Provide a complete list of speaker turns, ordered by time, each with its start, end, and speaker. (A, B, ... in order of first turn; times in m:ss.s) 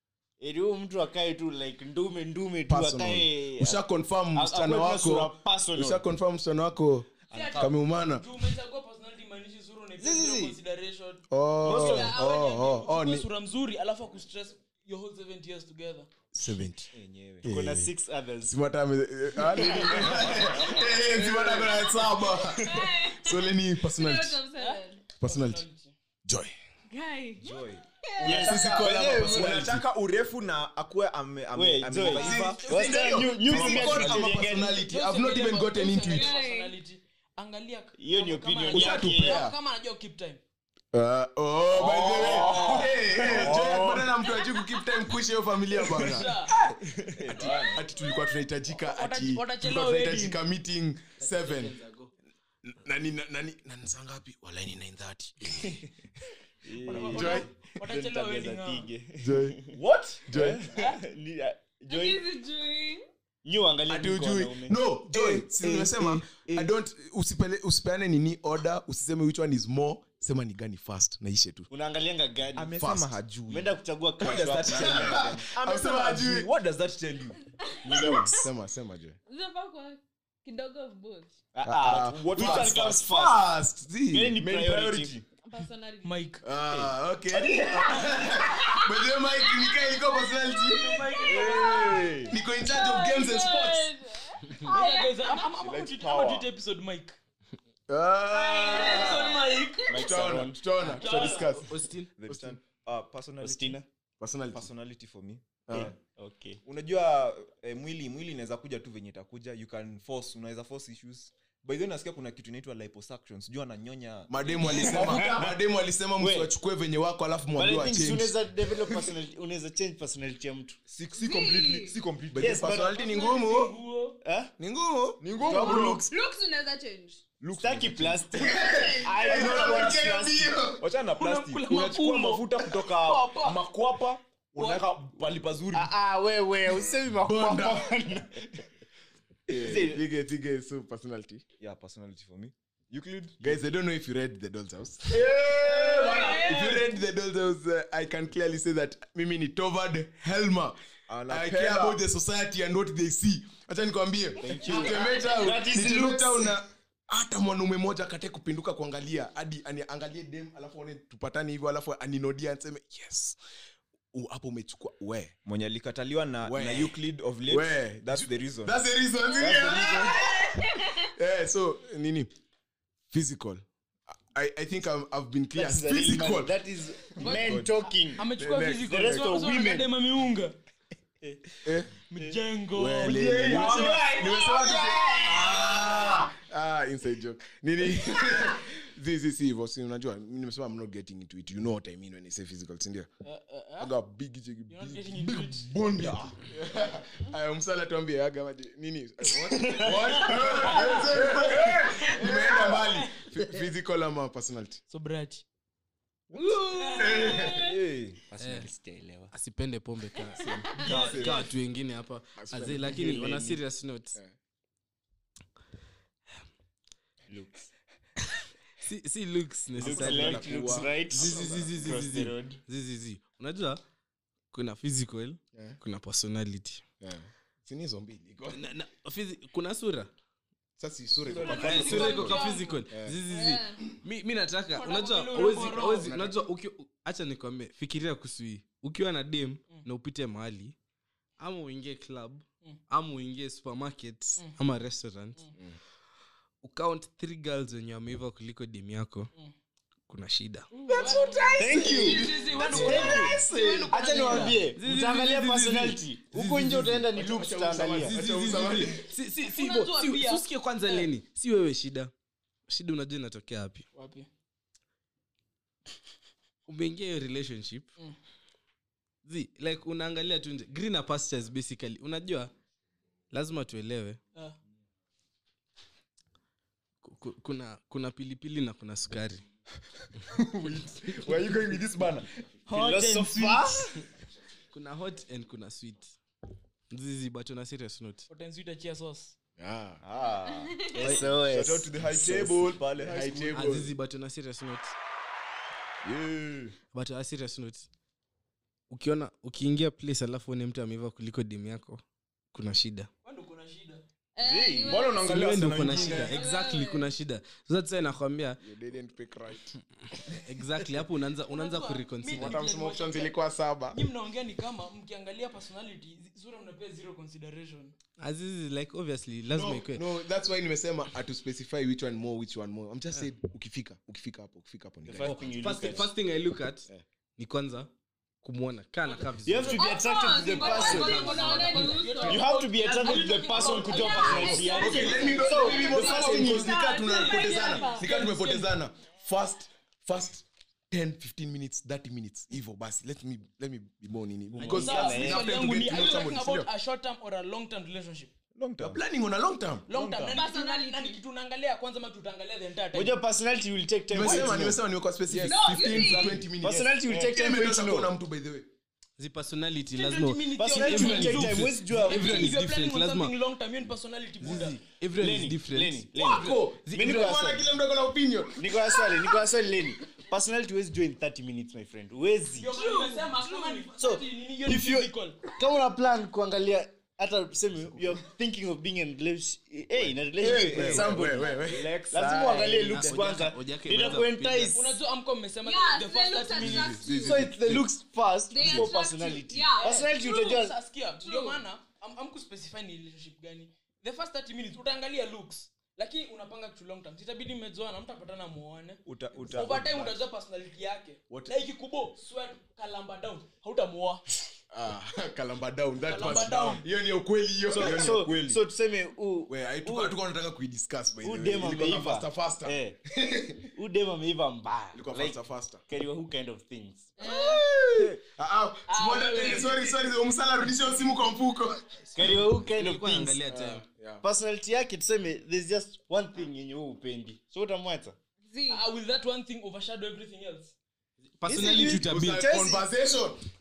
0:00.4-0:03.8 A
0:02.7-0:08.3 B
0:04.3-0:06.0 A
0:07.3-0:11.2 C
0:07.3-0:07.7 A
0:10.0-0:10.6 A
0:11.3-0:13.3 B
0:11.6-0:12.2 A
0:11.7-0:13.0 D
0:12.4-0:16.1 C
0:16.4-0:16.9 B
0:16.9-0:17.5 E
0:17.4-0:24.4 B
0:17.4-0:18.6 A
0:19.6-0:21.0 A
0:19.8-0:21.7 E
0:22.3-0:25.0 D
0:24.6-0:25.9 C
0:25.2-0:25.6 B
0:26.2-0:26.5 B
0:26.9-0:28.5 D
0:27.4-0:27.8 E
0:28.2-0:29.8 B
0:28.2-0:29.7 A
0:28.4-0:32.9 E
0:31.5-0:34.8 A
0:32.1-0:36.3 B
0:32.7-0:33.3 C
0:33.6-0:34.3 E
0:34.8-0:40.4 C
0:36.0-0:36.8 D
0:38.0-0:39.4 A
0:38.7-0:39.6 B
0:40.9-0:46.8 B
0:41.8-0:44.0 E
0:41.8-0:43.8 A
0:45.9-0:46.5 C
0:46.7-0:47.7 A
0:47.2-0:47.8 E
0:47.4-0:51.8 B
0:48.8-0:50.4 C
0:51.2-0:52.1 F
0:52.6-0:55.8 B
0:56.6-0:59.7 A
0:56.8-0:57.4 E
0:56.9-0:58.9 C
0:57.0-0:57.5 B
0:59.2-0:59.6 B
0:59.7-1:00.4 E
1:00.3-1:00.6 B
1:00.3-1:02.2 A
1:01.9-1:03.0 D
1:03.4-1:04.8 A
1:03.9-1:11.7 B
1:05.1-1:06.7 E
1:11.7-1:12.8 A
1:12.6-1:17.4 E
1:12.8-1:13.1 B
1:13.5-1:15.4 A
1:14.6-1:16.5 B
1:17.6-1:18.5 D
1:17.8-1:18.4 A
1:18.0-1:19.2 B
1:19.3-1:21.4 D
1:21.6-1:23.5 A
1:21.6-1:25.2 B
1:21.8-1:23.1 E
1:24.1-1:25.2 A
1:25.4-1:26.3 D
1:26.0-1:26.4 C
1:26.4-1:33.9 B
1:26.7-1:28.3 A
1:28.6-1:35.5 D
1:30.8-1:31.9 C
1:31.2-1:32.3 A
1:31.5-1:32.1 E
1:34.6-1:37.2 C
1:35.5-1:36.5 E
1:37.9-1:41.8 B
1:38.3-1:40.0 D
1:38.6-1:39.9 C
1:39.9-1:40.6 A
1:40.8-1:41.7 C
1:41.0-1:42.2 F
1:42.2-1:43.8 E
1:43.4-1:43.9 A
1:44.2-1:44.7 B
1:44.5-1:46.0 E
1:45.7-1:45.9 B
1:45.7-1:46.6 A
1:46.6-1:55.5 E
1:54.3-1:59.1 B
1:54.6-1:55.3 A
1:56.2-1:56.5 A
1:57.6-2:00.8 A
2:00.9-2:02.9 E
2:01.2-2:02.0 D
2:02.3-2:03.8 B
2:02.4-2:02.9 A
2:02.6-2:04.2 C
2:04.2-2:04.5 A
2:04.6-2:05.2 B
2:05.2-2:06.1 E
2:05.5-2:06.1 A
2:05.5-2:07.2 D
2:07.4-2:08.3 E
2:07.5-2:10.6 A
2:08.3-2:10.8 B
2:09.2-2:10.3 E
2:10.8-2:15.9 E
2:11.2-2:13.6 C
2:14.6-2:14.8 C
2:15.7-2:18.4 A
2:17.1-2:18.5 B
2:19.5-2:21.4 B
2:19.5-2:20.1 A
2:21.6-2:23.4 E
2:23.4-2:30.8 B
2:25.4-2:26.2 E
2:25.6-2:26.9 D
2:31.1-2:32.0 E
2:31.3-2:43.4 B
2:34.4-2:36.6 A
2:44.1-2:45.3 B
2:45.4-2:48.7 E
2:46.4-2:47.0 B
2:47.5-2:52.3 B
2:49.2-2:51.1 D
2:49.4-2:50.2 E
2:53.1-2:57.8 B
2:55.5-2:58.2 A
2:57.2-2:57.5 D
2:58.2-3:00.6 C
2:58.4-2:59.3 B
2:58.9-2:59.9 A
3:01.2-3:01.5 A
3:01.6-3:01.9 B
3:02.1-3:03.3 C
3:02.7-3:13.1 B
3:03.0-3:06.1 A
3:03.4-3:04.2 E
3:05.4-3:06.2 E
3:13.2-3:13.9 C
3:13.8-3:24.8 B
3:14.7-3:15.8 C
3:15.9-3:16.4 E
3:19.6-3:20.2 A
3:20.2-3:23.0 C
3:20.6-3:21.6 E
3:22.1-3:22.8 E
3:24.9-3:25.4 C
3:26.3-3:28.7 E
3:26.4-3:27.8 D
3:26.8-3:27.5 C
3:27.0-3:27.7 B
3:28.3-3:29.3 A
3:28.4-3:28.7 F
3:29.3-3:34.2 F
3:30.4-3:30.7 B
3:30.8-3:31.4 C
3:30.8-3:31.5 A
3:30.9-3:31.4 E
3:32.4-3:33.2 B
3:32.9-3:33.6 A
3:37.3-3:37.7 A
3:38.8-3:43.8 F
3:39.8-3:41.9 B
3:39.8-3:42.6 A
3:44.5-3:46.8 F
3:47.0-3:48.6 B
3:48.5-3:50.1 F
3:50.8-3:53.2 B
3:51.2-3:52.8 C
3:51.4-3:53.9 D
3:51.5-4:00.8 F
3:51.7-3:52.0 E
3:54.8-3:56.3 C
4:01.4-4:05.5 F
4:06.6-4:09.3 F
4:10.1-4:11.0 F
4:10.9-4:14.5 B
4:10.9-4:14.6 C
4:11.6-4:18.2 A
4:12.6-4:12.9 E
4:14.4-4:16.0 F
4:16.3-4:19.0 B
4:18.1-4:22.1 F
4:18.4-4:21.0 C
4:22.7-4:23.8 F
4:23.9-4:24.3 C
4:26.7-4:27.9 F
4:29.2-4:32.5 F
4:33.3-4:34.2 F
4:37.0-4:39.4 F
4:40.3-4:42.4 E
4:42.7-4:43.9 C
4:42.7-4:44.0 A
4:44.7-4:46.2 F
4:46.9-4:48.2 F
4:48.3-4:49.4 C
4:49.6-4:50.0 B
4:50.0-4:53.8 E
4:50.4-4:51.2 D
4:50.8-4:51.9 A
4:52.2-4:53.9 B
4:53.5-4:54.9 F
4:56.0-4:56.8 E
4:56.9-4:57.9 F
4:58.9-5:03.1 F
5:03.2-5:04.0 C
5:04.4-5:07.2 D
5:04.4-5:06.4 E
5:05.2-5:08.6 F
5:08.6-5:09.8 B
5:10.2-5:12.6 F
5:11.5-5:13.4 C
5:12.3-5:14.0 B
5:13.9-5:17.9 C
5:18.2-5:20.1 F
5:19.5-5:25.5 B
5:25.1-5:26.1 A
5:25.2-5:27.9 F
5:28.4-5:29.9 F
5:29.1-5:38.8 C
5:29.4-5:31.6 A
5:29.7-5:38.1 D
5:30.7-5:32.0 F
5:32.2-5:36.6 A
5:34.7-5:46.7 B
5:44.5-5:45.5 A
5:44.7-5:48.3 C
5:48.6-5:49.0 E
5:48.8-5:49.9 B
5:49.9-5:53.2 C
5:49.9-5:50.4 E
5:50.3-5:51.2 D
5:52.9-5:54.8 A
5:54.1-5:58.7 B
5:55.3-5:56.5 D
5:56.1-5:58.1 A
5:59.2-6:03.3 F
5:59.9-6:04.8 C
6:00.6-6:02.5 A
6:00.7-6:01.4 E
6:02.1-6:02.5 E
6:04.5-6:04.7 E
6:04.8-6:06.1 F
6:05.2-6:07.7 A
6:06.2-6:08.9 B
6:08.6-6:12.7 A
6:12.6-6:15.4 C
6:12.7-6:13.9 D
6:14.0-6:24.8 A
6:20.4-6:22.0 B
6:20.5-6:23.3 E
6:22.8-6:24.9 F
6:24.7-6:27.1 C
6:25.6-6:27.5 D
6:26.6-6:27.9 B
6:27.2-6:30.8 A
6:28.5-6:30.4 D
6:29.6-6:44.2 C
6:31.2-6:31.6 D
6:39.1-6:40.2 E
6:44.7-6:48.6 B
6:46.0-6:46.8 C
6:47.7-6:50.2 A
6:47.8-6:48.5 E
6:49.5-6:53.7 B
6:51.2-6:53.0 A
6:53.7-6:57.1 A
6:54.9-6:55.8 B
6:57.2-6:57.8 D
6:57.2-7:02.3 B
6:58.9-6:59.8 D
6:59.0-6:59.8 C
7:02.2-7:03.4 A
7:02.2-7:03.8 F
7:03.5-7:04.2 B
7:04.2-7:08.2 A
7:08.5-7:08.8 D
7:08.7-7:10.8 C
7:11.4-7:12.4 F
7:11.5-7:13.4 B
7:11.5-7:12.9 A